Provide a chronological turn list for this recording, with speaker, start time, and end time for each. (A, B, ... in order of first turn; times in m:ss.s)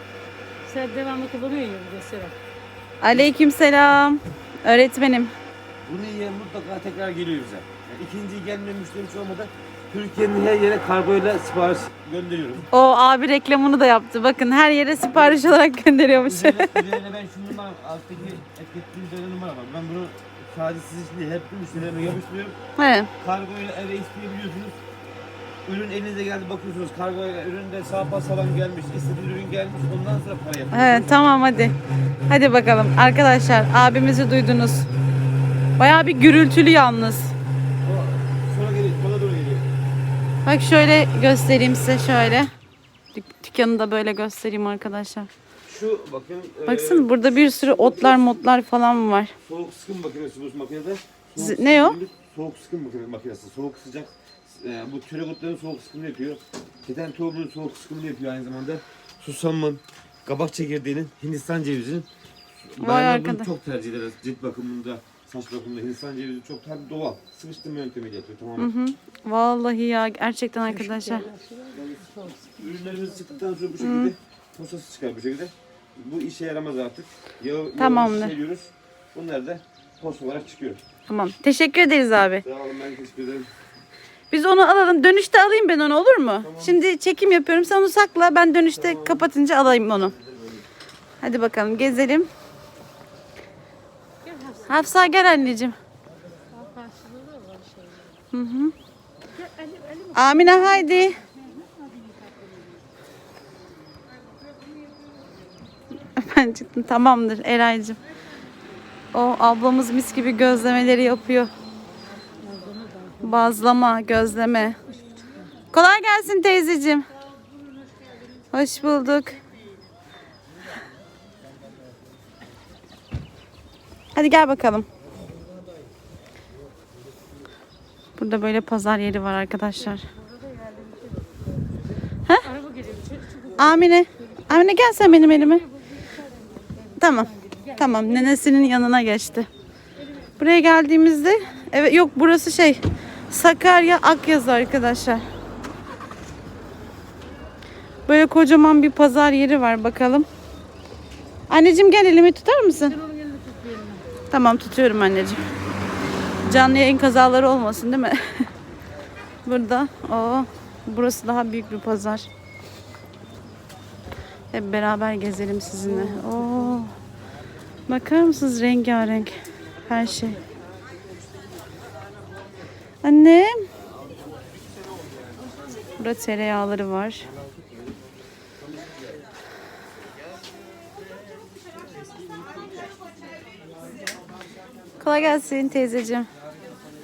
0:00.6-0:02.4 A
0:03.0-0:05.3 B
0:05.8-0:12.7 C
0:12.7-0:16.8 B
0:15.1-0:15.4 C
0:16.2-0:22.6 C
0:22.8-0:23.1 B
0:23.2-0:24.8 C
0:25.6-0:31.3 C
0:30.7-0:31.8 B
0:32.3-0:34.9 B
0:35.8-0:37.3 B
0:37.8-0:39.7 C
0:40.4-0:42.5 B
0:43.1-0:45.3 B
0:45.7-0:48.4 C
0:46.6-0:49.3 B
0:49.4-1:02.1 C
0:51.4-0:52.0 B
1:02.6-1:08.7 C
1:02.8-1:03.5 B
1:08.6-1:11.3 B
1:10.7-1:13.0 A
1:11.7-1:20.8 C
1:13.8-1:14.1 B
1:17.8-1:18.4 B
1:21.1-1:22.4 B
1:22.4-1:23.5 C
1:24.3-1:30.1 B
1:26.4-1:26.8 C
1:28.7-1:29.3 C
1:30.2-1:30.6 C
1:31.2-1:32.3 B
1:34.2-1:34.9 A
1:34.6-1:35.8 B
1:36.5-1:38.1 A
1:38.3-1:38.7 B
1:39.4-1:42.2 A
1:40.1-1:41.2 B
1:46.2-1:48.0 B
1:49.1-1:51.5 B
1:52.4-1:53.5 A
1:53.2-1:54.8 B
1:55.7-1:57.0 B
1:58.5-1:59.4 B
2:04.1-2:04.9 B
2:08.2-2:10.0 B
2:10.2-2:11.2 A
2:12.4-2:13.9 A
2:13.6-2:15.6 B
2:14.5-2:18.3 A
2:17.0-2:19.5 B
2:20.4-2:25.2 B
2:28.1-2:30.3 B
2:31.5-2:33.0 B
2:32.7-2:34.1 A
2:34.3-2:35.4 B
2:36.4-2:38.4 B
2:39.4-2:42.2 B
2:44.5-2:46.9 B
2:46.0-2:46.6 A
2:47.9-2:49.3 B
2:49.8-2:50.4 B
2:53.0-2:53.6 B
2:56.0-2:57.2 B
3:05.0-3:06.3 B